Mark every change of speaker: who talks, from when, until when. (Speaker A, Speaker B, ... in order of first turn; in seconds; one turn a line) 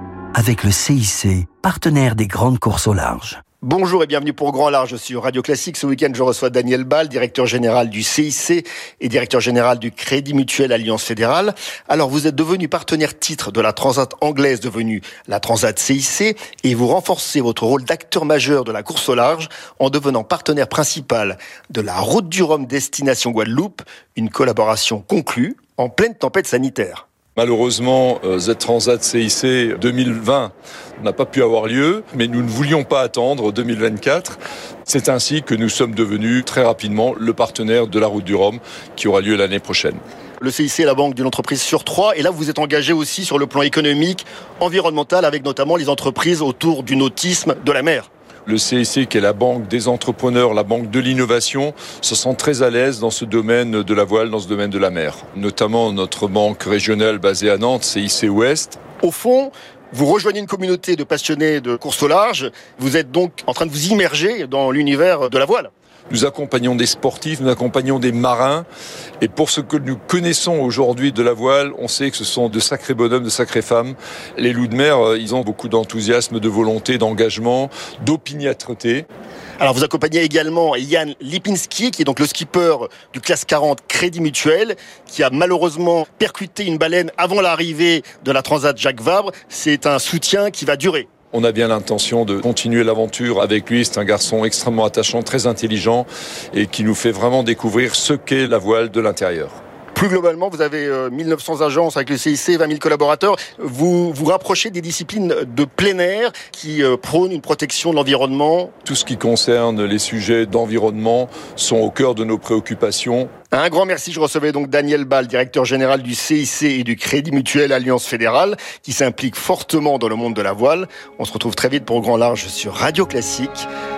Speaker A: 0.3-3.4
Speaker B: 3.6-27.0
Speaker C: 27.4-40.0
Speaker B: 40.4-48.1
Speaker C: 48.5-58.8
Speaker B: 59.0-65.7
Speaker C: 66.1-68.7
Speaker C: 69.2-79.0
Speaker B: 79.6-91.1
Speaker C: 91.3-99.6
Speaker B: 99.9-108.7
Speaker C: 108.8-113.3
Speaker B: 113.5-123.7